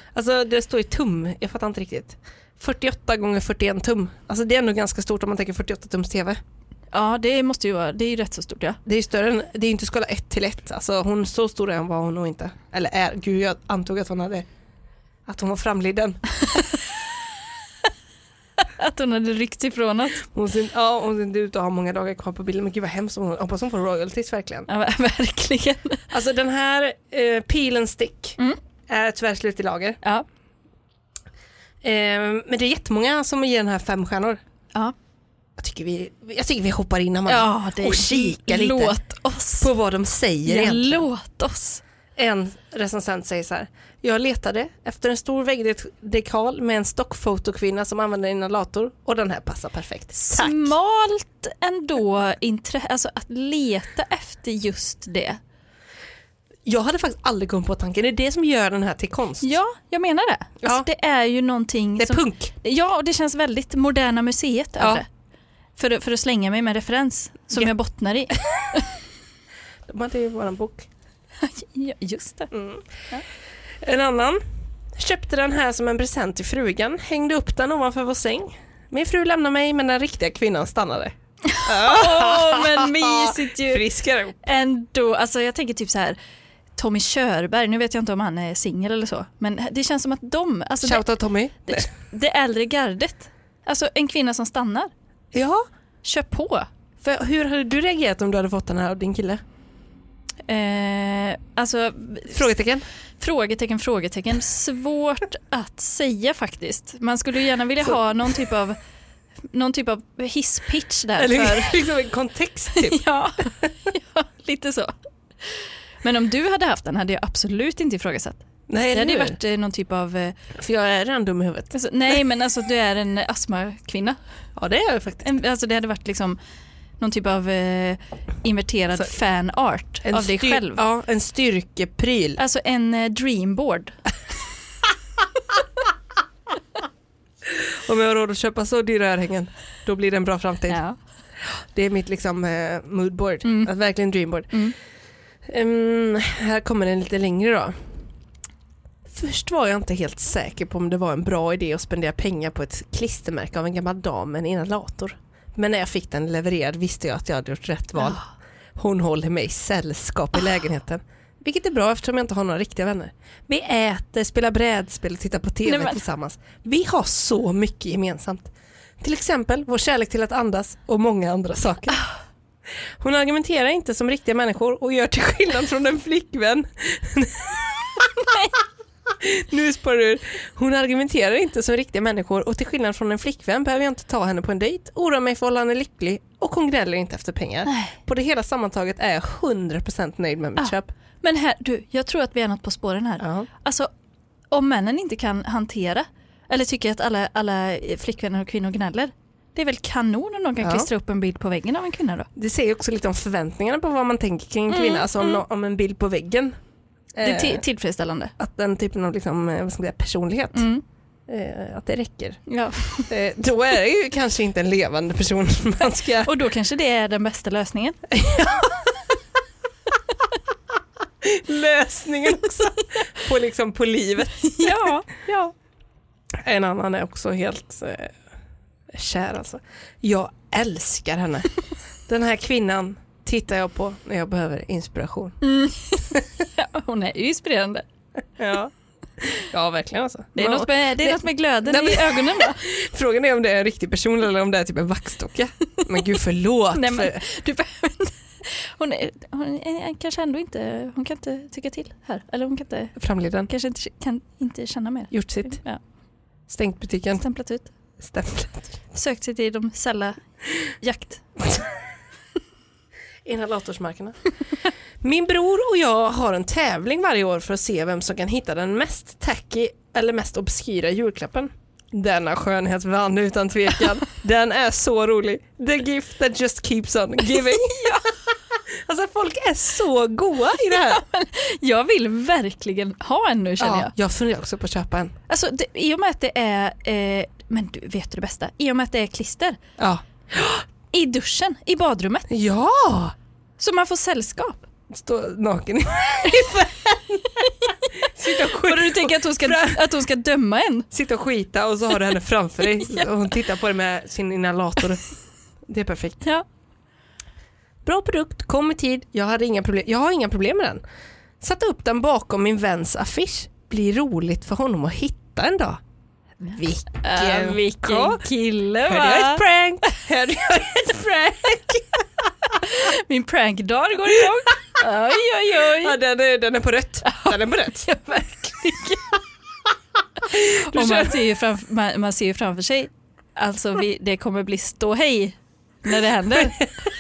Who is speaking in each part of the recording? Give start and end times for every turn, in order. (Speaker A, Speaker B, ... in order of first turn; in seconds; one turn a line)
Speaker A: 0.1-6.4
Speaker B: 6.9-8.8
Speaker A: 8.8-14.4
Speaker A: 15.3-16.2
Speaker B: 16.4-16.8
Speaker B: 18.6-20.3
Speaker A: 20.2-24.7
Speaker B: 24.7-26.1
Speaker A: 26.1-28.4
Speaker A: 28.9-30.0
Speaker A: 31.8-34.4
Speaker A: 35.6-39.0
Speaker B: 37.3-39.7
Speaker A: 39.6-41.0
Speaker B: 40.5-41.8
Speaker A: 42.1-50.7
Speaker B: 50.2-55.4
Speaker A: 56.6-59.5
Speaker B: 59.4-65.1
Speaker A: 60.6-60.9
Speaker A: 62.0-62.5
Speaker B: 65.8-68.9
Speaker A: 69.9-70.9
Speaker B: 71.4-72.5
Speaker A: 72.5-72.9
Speaker A: 73.8-74.4
Speaker A: 74.9-84.4
Speaker B: 81.5-83.8
Speaker B: 84.4-86.2
Speaker B: 86.8-91.0
Speaker A: 90.8-91.9
Speaker B: 91.7-94.9
Speaker A: 95.3-95.6
Speaker B: 96.0-96.7
Speaker A: 97.0-99.4
Speaker B: 100.5-102.5
Speaker A: 102.3-102.8
Speaker B: 103.2-108.8
Speaker B: 109.5-111.8
Speaker A: 111.2-113.0
Speaker B: 112.8-114.9
Speaker B: 115.5-120.4
Speaker A: 118.7-119.4
Speaker A: 120.5-121.7
Speaker B: 121.7-124.2
Speaker A: 124.6-125.3
Speaker B: 125.2-126.4
Speaker B: 127.0-130.8
Speaker A: 130.1-132.4
Speaker B: 132.4-134.0
Speaker A: 137.5-140.8
Speaker B: 140.7-141.0
Speaker A: 141.4-144.7
Speaker B: 143.4-143.7
Speaker A: 145.5-147.8
Speaker A: 149.1-158.2
Speaker B: 158.0-158.3
Speaker A: 158.8-172.0
Speaker B: 165.6-166.0
Speaker A: 173.0-178.3
Speaker B: 178.2-178.5
Speaker A: 179.1-190.9
Speaker B: 187.7-188.0
Speaker B: 190.6-193.9
Speaker A: 193.2-193.5
Speaker B: 194.5-202.3
Speaker A: 200.6-200.9
Speaker A: 202.4-206.6
Speaker B: 204.7-205.4
Speaker A: 207.1-207.6
Speaker B: 207.2-208.3
Speaker A: 208.4-210.6
Speaker B: 210.5-210.8
Speaker A: 211.3-212.4
Speaker B: 212.5-213.1
Speaker A: 213.1-216.3
Speaker B: 216.2-218.0
Speaker A: 218.1-219.0
Speaker A: 221.2-224.9
Speaker B: 224.4-225.5
Speaker A: 226.4-228.2
Speaker A: 228.9-231.5
Speaker A: 232.1-235.4
Speaker B: 235.4-237.9
Speaker A: 238.4-247.2
Speaker B: 240.4-242.6
Speaker B: 246.7-253.0
Speaker A: 253.0-253.5
Speaker B: 253.5-255.8
Speaker A: 255.1-255.6
Speaker A: 256.5-257.2
Speaker B: 257.1-257.7
Speaker A: 258.0-258.8
Speaker B: 258.9-261.3
Speaker A: 263.2-264.2
Speaker A: 265.0-277.9
Speaker B: 277.3-278.1
Speaker A: 278.7-281.0
Speaker B: 280.6-283.9
Speaker A: 283.6-285.1
Speaker B: 285.3-289.6
Speaker A: 289.8-290.6
Speaker B: 290.9-292.3
Speaker A: 292.3-293.1
Speaker B: 293.6-294.6
Speaker A: 294.9-299.9
Speaker B: 298.2-300.9
Speaker A: 300.9-305.1
Speaker A: 305.7-306.2
Speaker A: 307.9-310.8
Speaker A: 311.4-315.8
Speaker A: 316.4-318.2
Speaker B: 317.0-319.4
Speaker A: 318.9-322.3
Speaker B: 322.6-326.0
Speaker A: 325.7-327.9
Speaker B: 327.0-329.1
Speaker B: 330.3-336.7
Speaker A: 330.3-331.2